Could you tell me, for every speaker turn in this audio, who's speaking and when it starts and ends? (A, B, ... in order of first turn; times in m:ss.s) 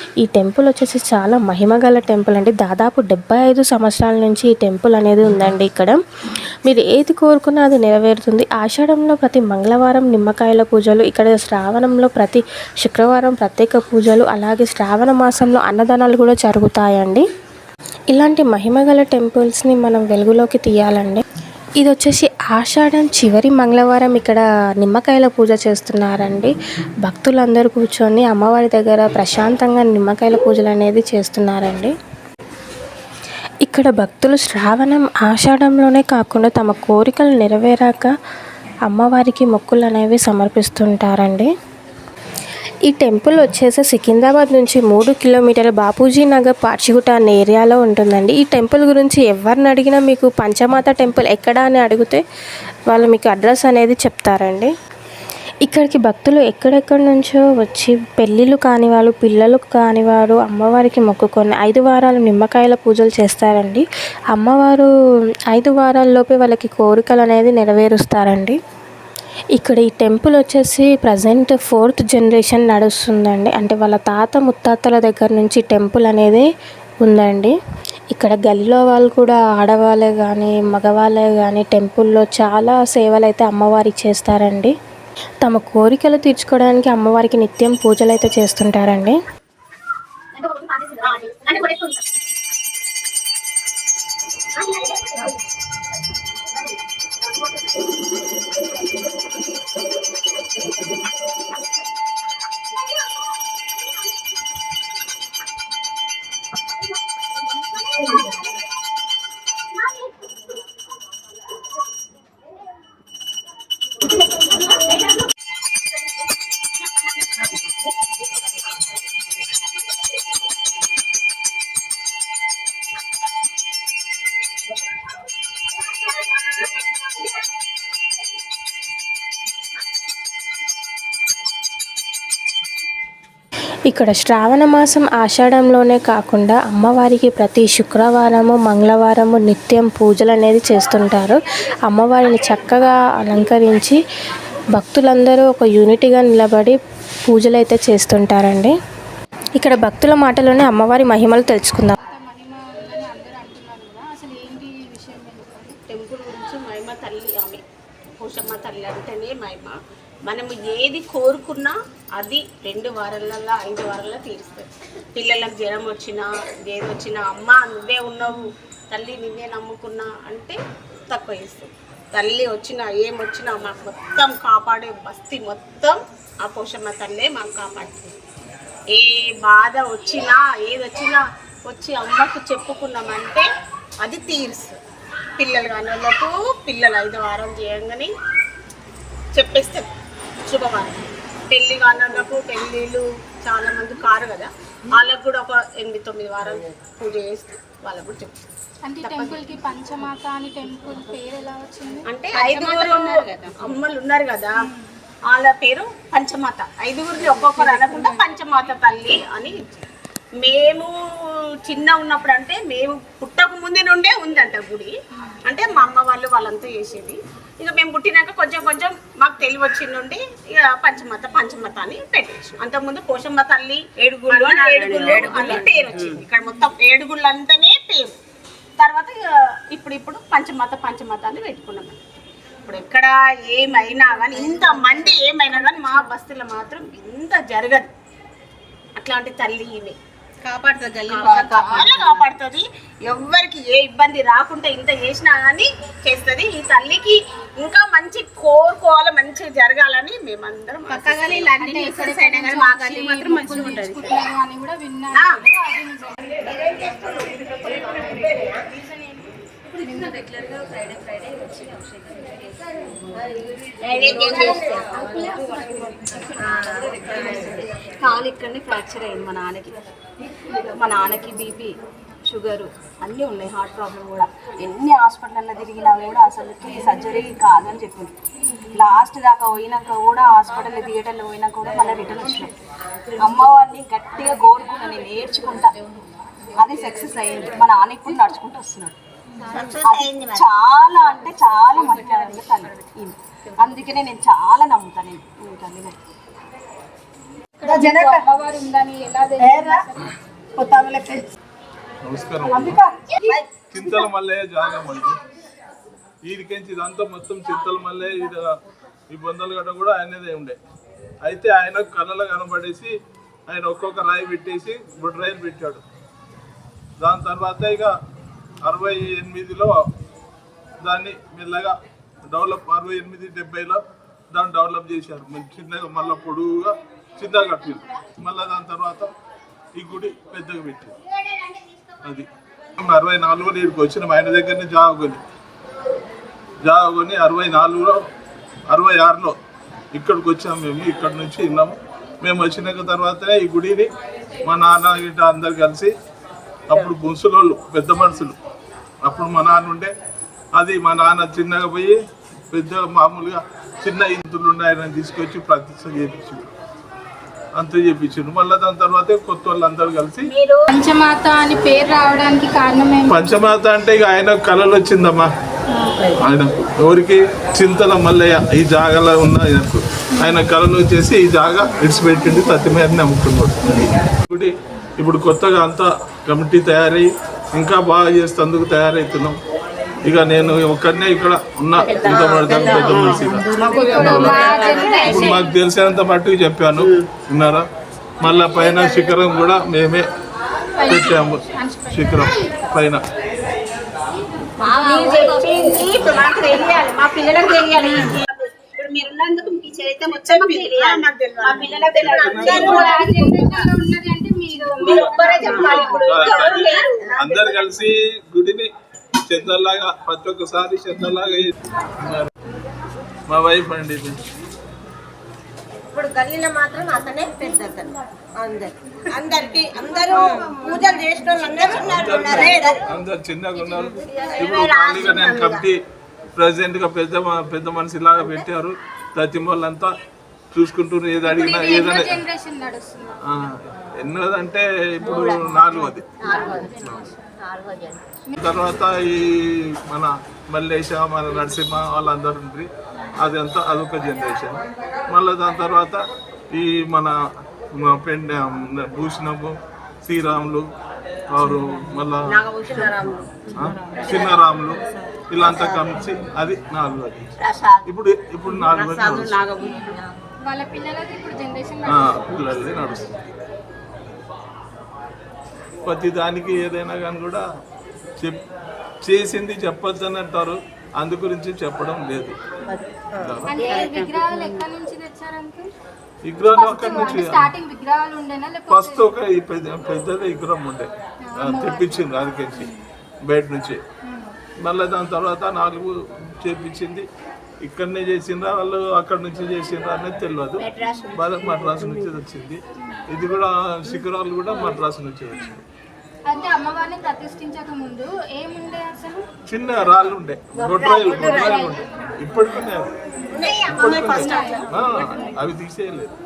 0:00.2-0:06.0 A
0:06.7-0:17.2 A
0:18.1-0:21.2 A
0:21.8-0:26.5 A
0:27.0-0:31.9 A
0:33.6-0:38.1 A
0:38.9-0:41.5 A
0:42.9-0:52.2 A
0:52.9-0:54.7 A
0:55.6-1:04.9 A
1:05.5-1:08.6 A
1:09.6-1:16.5 A
1:17.0-1:17.5 A
1:18.1-1:24.7 A
1:25.4-1:29.2 A
1:31.1-1:31.8 B
2:13.9-2:24.0 A
2:24.8-2:28.7 A
2:29.6-2:32.0 A
2:32.0-2:35.8 C
2:35.9-2:37.6 B
2:38.2-2:50.6 B
2:51.1-2:58.1 B
2:58.9-3:03.4 B
3:04.0-3:04.8 B
3:05.4-3:08.1 B
3:09.3-3:09.9 B
3:10.5-3:18.3 B
3:18.9-3:23.3 C
3:19.0-3:19.4 B
3:22.1-3:24.5 B
3:22.4-3:23.5 D
3:25.3-3:29.8 B
3:27.5-3:28.3 C
3:30.4-3:30.9 B
3:31.7-3:34.9 B
3:35.4-3:48.1 B
3:44.0-3:46.2 D
3:48.8-3:52.0 B
3:52.7-3:57.9 B
3:54.4-3:55.8 D
3:59.0-4:00.0 B
4:00.4-4:02.2 D
4:01.1-4:11.6 B
4:11.0-4:13.0 D
4:11.5-4:16.9 C
4:12.2-4:14.2 B
4:15.1-4:15.4 B
4:17.0-4:18.6 E
4:19.9-4:22.3 F
4:23.8-4:24.6 B
4:24.0-4:29.9 F
4:24.3-4:25.1 E
4:30.5-4:38.2 F
4:38.7-4:42.5 F
4:43.2-4:45.7 F
4:46.6-4:49.0 F
4:49.5-4:50.4 E
4:49.7-4:56.0 F
4:57.6-5:00.1 C
4:57.7-4:58.2 D
4:59.4-4:59.8 D
5:00.6-5:01.2 D
5:02.0-5:02.8 G
5:02.5-5:03.4 C
5:03.7-5:05.2 G
5:06.2-5:08.4 G
5:09.1-5:10.6 G
5:11.2-5:12.9 G
5:13.5-5:15.8 G
5:17.0-5:17.9 G
5:18.6-5:19.8 G
5:20.8-5:29.1 G
5:29.8-5:31.0 G
5:32.0-5:35.2 G
5:36.6-5:38.0 G
5:38.7-5:39.3 G
5:40.0-5:43.9 G
5:44.4-5:45.9 G
5:46.7-5:48.4 G
5:49.0-5:49.9 G
5:50.5-5:52.0 G
5:52.5-5:56.4 G
5:57.6-6:00.3 G
6:00.3-6:00.6 B
6:00.7-6:03.2 C
6:03.1-6:05.3 G
6:05.7-6:06.1 C
6:06.1-6:19.4 G
6:20.0-6:27.6 G
6:21.9-6:24.8 D
6:23.5-6:25.5 C
6:28.2-6:30.0 G
6:30.8-6:32.3 C
6:30.9-6:33.0 G
6:34.6-6:35.4 E
6:34.8-6:38.2 B
6:34.9-6:43.6 D
6:39.8-6:42.6 B
6:42.0-6:42.9 G
6:42.5-6:46.8 C
6:44.8-6:48.7 G
6:44.8-6:46.8 D
6:49.2-6:52.3 G
6:53.3-6:54.2 G
6:55.9-7:02.9 E
7:01.5-7:05.8 G
7:04.0-7:05.6 E
7:06.4-7:09.9 G
7:10.5-7:12.2 G
7:11.2-7:13.2 C
7:13.2-7:17.1 G
7:15.1-7:15.4 E
7:16.2-7:16.8 E
7:16.2-7:17.2 C
7:17.4-7:18.0 E
7:18.4-7:26.0 G
7:26.5-7:27.1 G
7:27.7-7:30.7 G
7:31.3-7:32.4 G
7:32.3-7:33.4 D
7:32.6-7:33.1 E
7:33.5-7:39.4 G
7:34.1-7:34.3 E
7:35.5-7:35.8 E
7:37.4-7:37.8 E
7:38.8-7:40.0 E
7:39.6-7:43.0 C
7:41.9-7:43.3 G
7:45.8-7:47.4 G
7:49.0-7:52.4 G
7:53.1-7:53.7 G
7:53.4-7:55.7 C
7:56.3-7:57.5 G
7:56.5-7:59.1 C
7:58.7-8:00.9 G
8:01.3-8:02.8 C
8:01.4-8:02.7 G
8:03.2-8:03.8 G
8:04.0-8:04.4 C
8:04.6-8:07.1 G
8:07.6-8:15.5 G
8:10.8-8:11.1 E
8:16.2-8:19.3 C
8:19.5-8:22.9 G
8:20.6-8:21.7 E
8:23.2-8:25.3 C
8:23.3-8:24.7 E
8:23.5-8:26.1 G